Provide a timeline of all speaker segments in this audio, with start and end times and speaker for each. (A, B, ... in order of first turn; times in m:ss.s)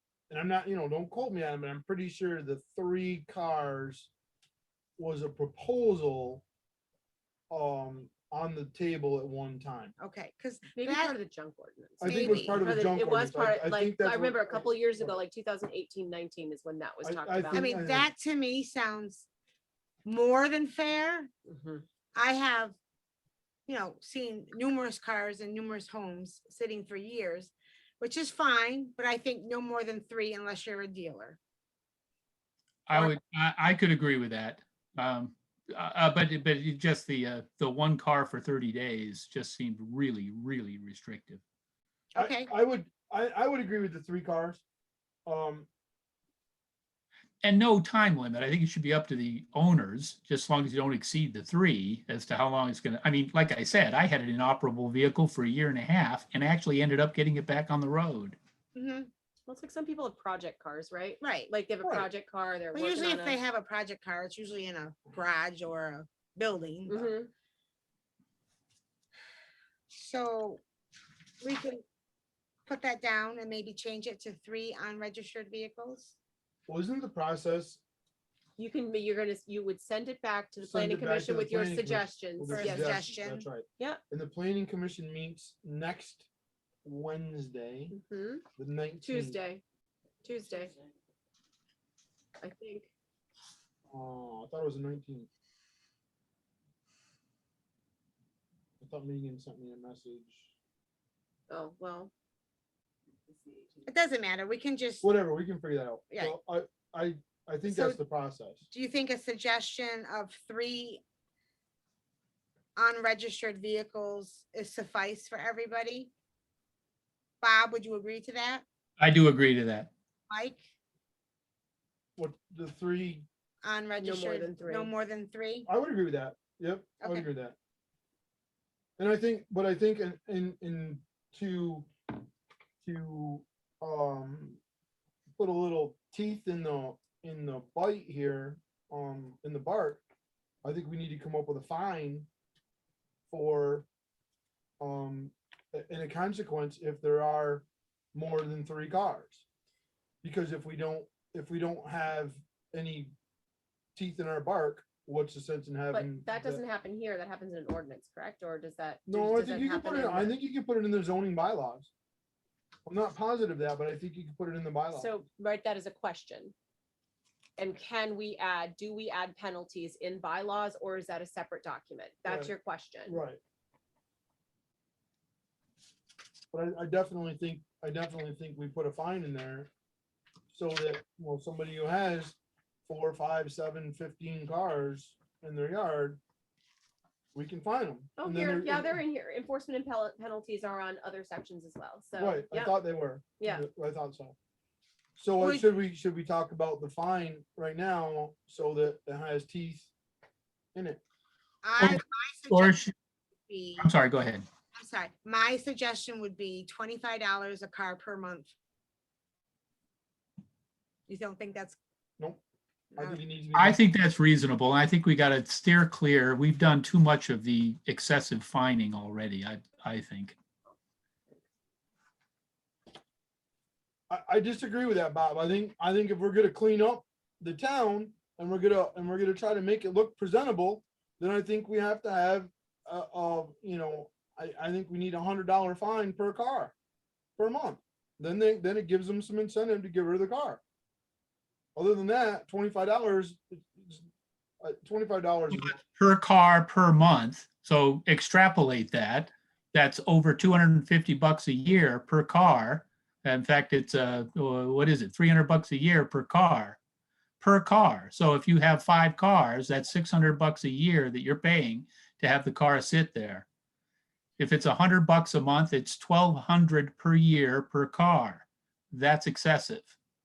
0:00.3-0:04.1 A
0:05.0-0:06.4 A
0:07.5-0:09.9 A
0:10.0-0:11.2 B
0:10.8-0:17.7 C
0:12.0-0:15.2 A
0:12.0-0:12.6 B
0:17.0-0:18.1 A
0:17.5-0:19.2 B
0:20.0-0:21.3 B
0:21.5-0:21.8 C
0:22.1-0:22.7 B
0:23.7-0:31.4 B
0:32.9-0:41.4 D
0:42.1-0:42.5 B
0:42.2-0:44.6 A
0:45.2-0:45.7 A
0:47.4-0:58.4 D
0:58.7-0:59.1 B
0:59.5-1:03.4 C
1:01.2-1:01.5 B
1:02.7-1:07.1 B
1:06.9-1:07.3 C
1:09.9-1:10.6 B
1:11.4-1:11.8 B
1:12.7-1:16.1 B
1:16.7-1:17.8 A
1:18.6-1:23.0 C
1:20.6-1:26.3 A
1:22.5-1:23.4 B
1:26.8-1:27.9 A
1:27.9-1:28.4 C
1:28.6-1:29.4 A
1:29.0-1:29.6 C
1:30.2-1:30.8 C
1:32.4-1:32.9 C
1:33.9-1:35.3 A
1:38.8-1:40.5 A
1:41.5-1:42.1 C
1:43.8-1:45.1 B
1:45.0-1:48.6 A
1:47.6-1:48.0 B
1:48.7-1:51.0 B
1:52.8-1:56.1 B
1:57.4-1:58.6 B
1:59.0-1:59.9 D
2:00.3-2:00.6 B
2:02.2-2:03.3 A
2:03.6-2:05.7 B
2:04.0-2:04.9 C
2:05.6-2:07.6 A
2:07.0-2:07.3 B
2:09.0-2:11.9 A
2:12.8-2:14.6 A
2:15.4-2:20.0 A
2:20.6-2:22.3 A
2:23.3-2:23.9 A
2:24.8-2:29.4 A
2:30.2-2:33.1 A
2:34.0-2:36.6 A
2:35.9-2:40.3 C
2:39.1-2:41.9 A
2:42.8-2:45.1 A
2:44.9-2:46.5 C
2:47.6-2:53.2 C
2:52.2-2:52.5 A
2:53.1-2:53.4 A
2:56.5-2:59.7 A
3:00.5-3:06.2 A
3:07.3-3:09.0 A
3:08.2-3:12.7 C
3:12.2-3:14.4 A
3:15.2-3:19.9 A
3:15.4-3:15.7 B
3:20.7-3:21.0 A
3:21.6-3:22.8 B
3:21.8-3:22.9 D
3:23.5-3:23.9 B
3:23.8-3:24.4 D
3:24.7-3:28.5 B
3:31.1-3:31.8 B
3:32.9-3:33.2 B
3:33.0-3:33.8 A
3:33.6-3:40.4 D
3:44.1-3:56.7 A
3:57.4-4:00.6 A
4:01.8-4:04.0 A
4:04.6-4:05.8 A
4:05.5-4:16.8 D
4:17.4-4:23.4 D
4:24.4-4:29.9 D